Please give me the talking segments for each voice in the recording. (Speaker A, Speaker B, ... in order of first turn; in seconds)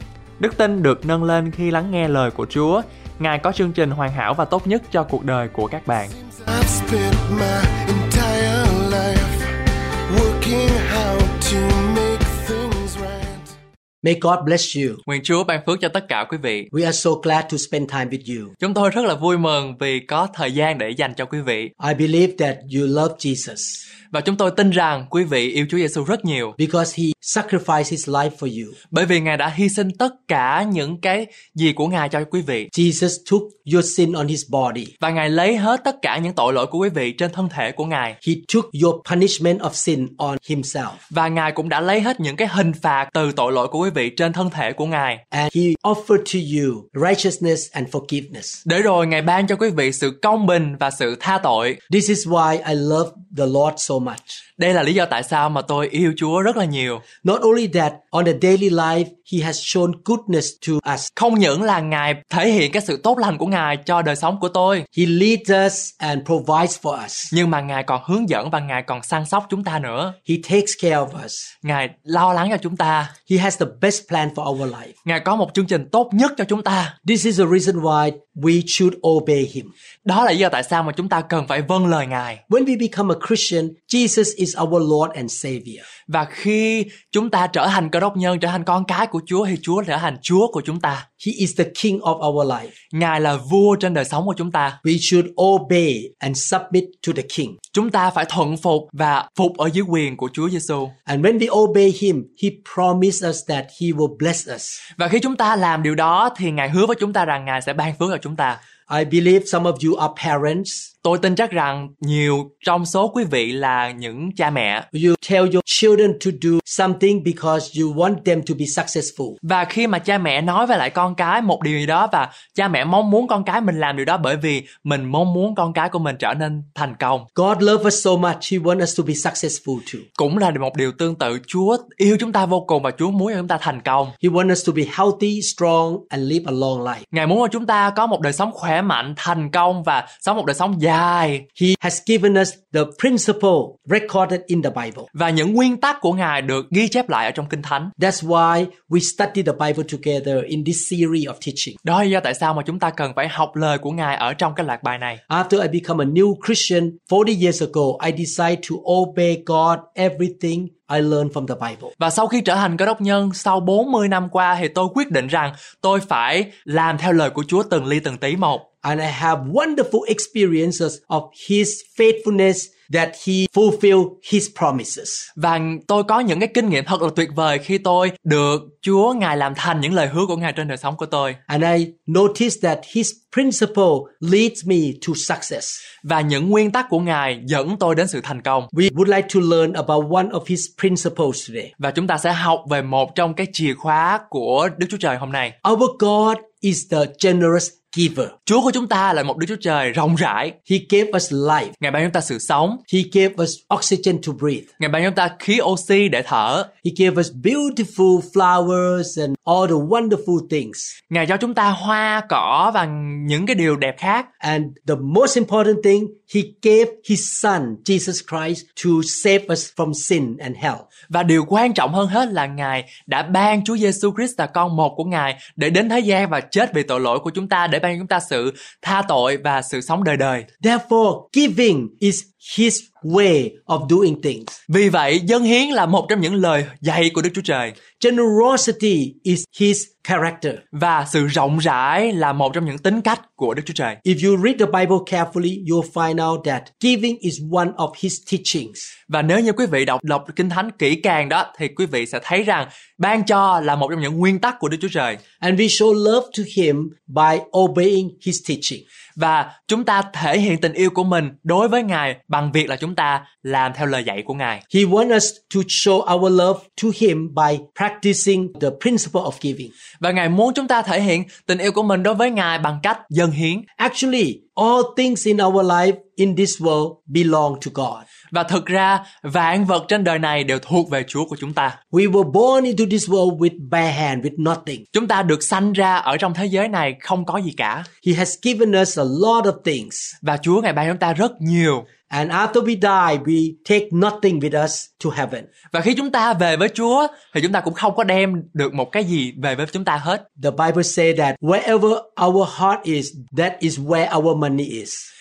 Speaker A: 0.4-6.1, 15.1-16.7, 18.6-21.7, 24.1-26.6, 28.9-32.7, 35.0-38.2, 41.1-45.2, 48.6-51.8, 54.6-57.0, 61.2-64.9, 67.3-70.1, 71.6-73.1, 75.0-77.0, 80.0-82.4, 86.1-91.1, 92.9-94.8, 97.7-100.9, 105.0-108.6, 111.0-114.9, 119.4-127.3, 130.2-134.1, 137.1-141.4, 145.1-147.9, 151.8-155.2, 162.0-168.6, 175.4-181.4, 186.0-188.7, 191.8-195.5, 198.5-200.5, 201.8-202.8, 204.8-206.7, 211.1-214.3, 221.1-230.5, 234.7-237.8, 240.7-244.0, 249.1-255.2, 259.2-264.6, 270.0-273.6, 278.3-281.8, 284.9-287.9, 290.2-291.9, 295.7-300.2
Speaker B: 6.1-13.5
Speaker C: 14.0-15.0, 16.7-18.5, 21.8-23.8, 26.6-28.8, 32.7-34.9, 38.2-41.0, 45.3-48.6, 51.9-54.4, 57.2-61.1, 64.9-67.3, 70.2-71.5, 73.2-74.9, 77.0-79.7, 82.5-85.8, 91.2-92.7, 94.8-97.6, 101.1-104.8, 108.9-110.9, 114.9-119.4, 127.4-130.1, 134.2-137.1, 141.6-145.1, 148.0-151.8, 155.3-161.9, 168.8-175.3, 181.5-185.8, 188.7-191.7, 195.6-198.3, 200.7-201.7, 202.9-204.7, 206.8-210.9, 214.4-220.9, 230.6-234.6, 238.0-240.6, 244.0-248.9, 255.4-258.8, 264.7-269.7, 273.8-278.1, 281.9-284.8, 288.0-290.2, 292.1-295.5, 300.4-305.1